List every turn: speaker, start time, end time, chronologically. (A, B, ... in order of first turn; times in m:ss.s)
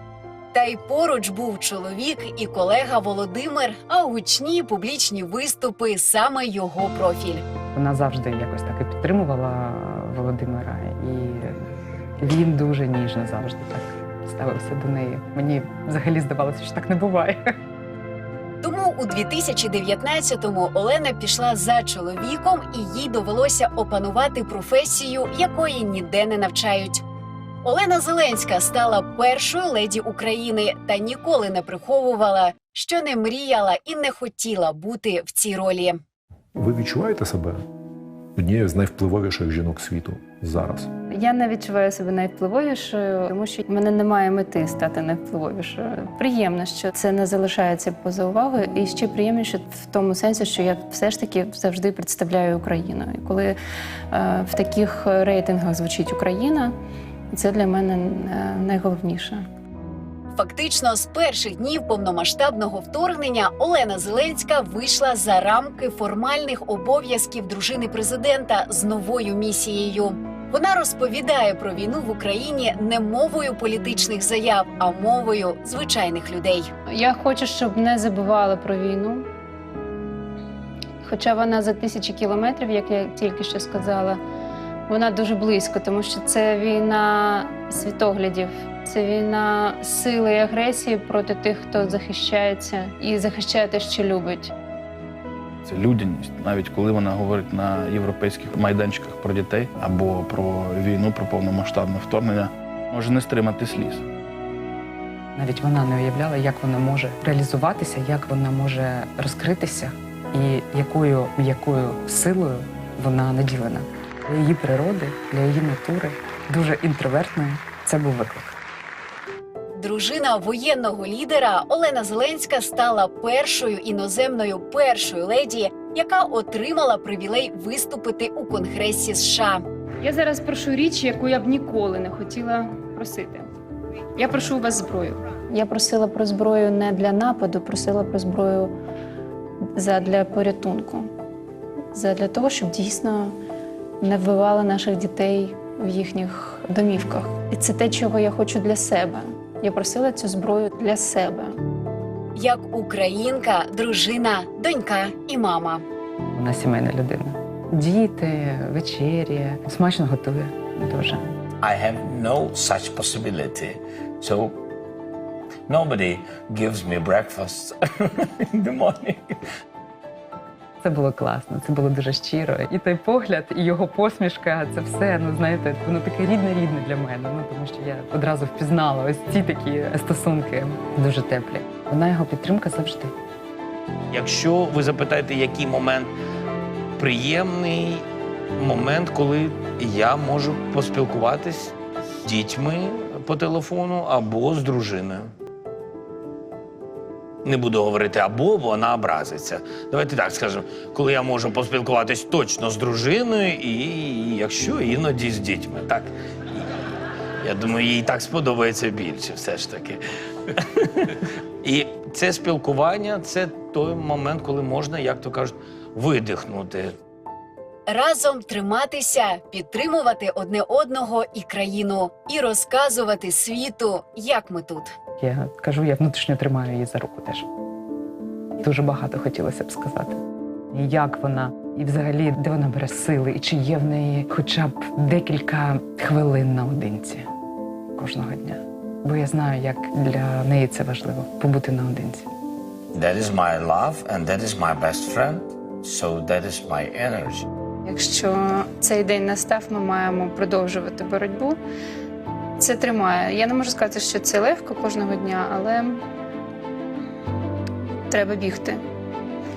0:00.5-0:07.4 A
0:07.7-0:11.6 B
0:12.2-0:17.5 B
0:18.6-0:27.0 A
0:27.6-0:36.0 A
0:36.5-0:37.6 C
0:38.4-0:40.9 C
0:41.1-0:53.6 D
0:54.1-0:56.7 D
0:57.3-0:59.4 D
1:00.4-1:16.7 A
1:16.9-1:19.3 D
1:21.0-1:24.2 D
1:24.9-1:34.5 D
1:35.6-1:44.0 E
1:45.3-1:58.6 B
1:59.8-2:09.6 A
2:10.0-2:13.5 D
2:14.2-2:18.7 D
2:19.8-2:21.1 D
2:21.9-2:23.3 D
2:24.0-2:31.6 D
2:32.4-2:35.8 A
2:36.3-2:41.2 B
2:41.6-2:44.6 F
2:45.7-2:49.4 F
2:50.8-3:03.1 B
3:04.1-3:06.1 G
3:07.0-3:08.0 G
3:08.6-3:15.3 G
3:17.4-3:26.6 G
3:27.4-3:30.0 G
3:30.5-3:31.1 G
3:31.6-3:36.9 G
3:37.9-3:44.9 A
3:45.2-3:47.4 B
3:48.6-3:50.2 B
3:50.7-3:57.3 B
3:58.0-4:02.3 B
4:02.9-4:07.5 F
4:07.8-4:11.6 D
4:12.6-4:16.0 D
4:18.1-4:18.8 D